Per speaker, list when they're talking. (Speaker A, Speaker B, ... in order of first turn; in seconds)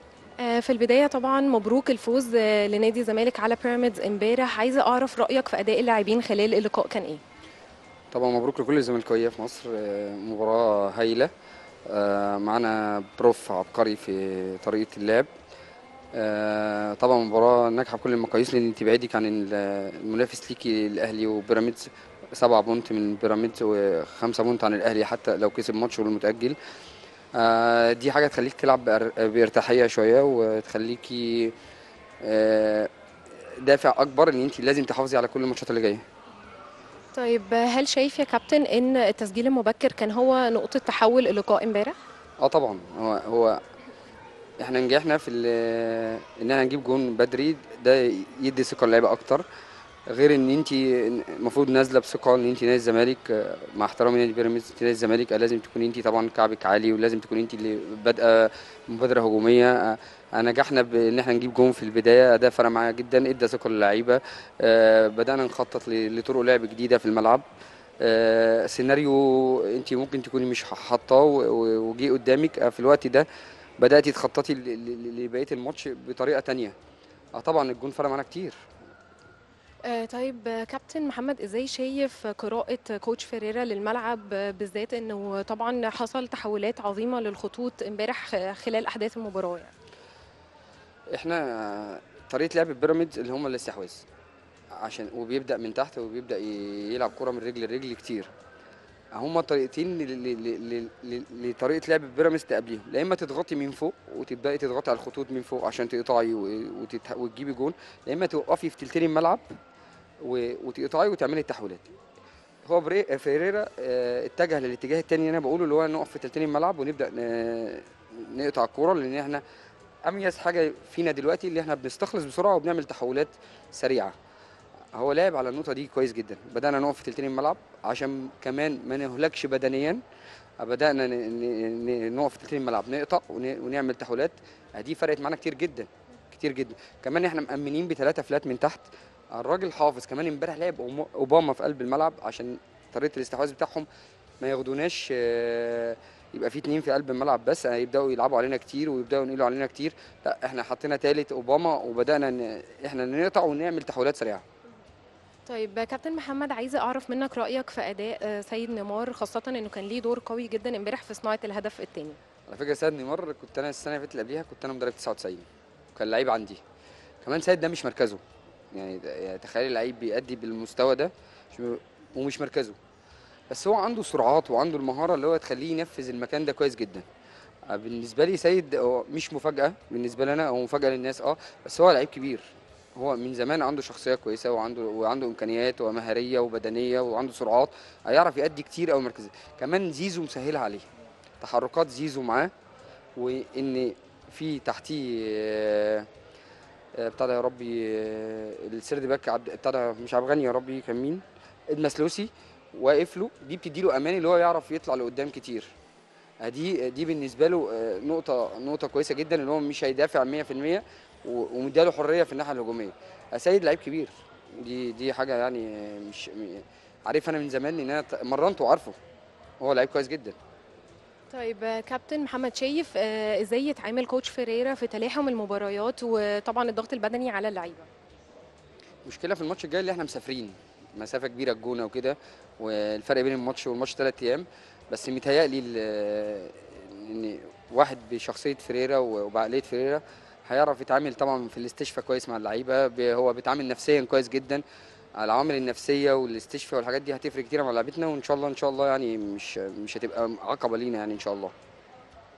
Speaker A: 0.4-7.2, 37.1-42.0, 79.8-89.7, 155.5-162.2, 221.3-227.9
Speaker B: 8.1-11.3, 11.9-15.3, 16.1-26.6, 27.4-31.5, 32.2-32.9, 33.6-36.0, 42.4-43.6, 44.6-49.4, 50.1-67.4, 68.0-73.2, 73.8-76.7, 77.4-78.6, 91.1-94.0, 94.7-98.3, 99.1-109.4, 110.2-111.9, 112.7-119.4, 120.0-124.1, 124.9-130.0, 130.6-143.9, 144.4-154.4, 162.5-166.6, 167.2-168.2, 168.7-172.8, 173.5-177.0, 177.7-190.8, 191.4-192.5, 193.2-196.1, 196.9-205.7, 206.4-218.9, 219.6-220.3, 229.0-244.6, 245.2-251.5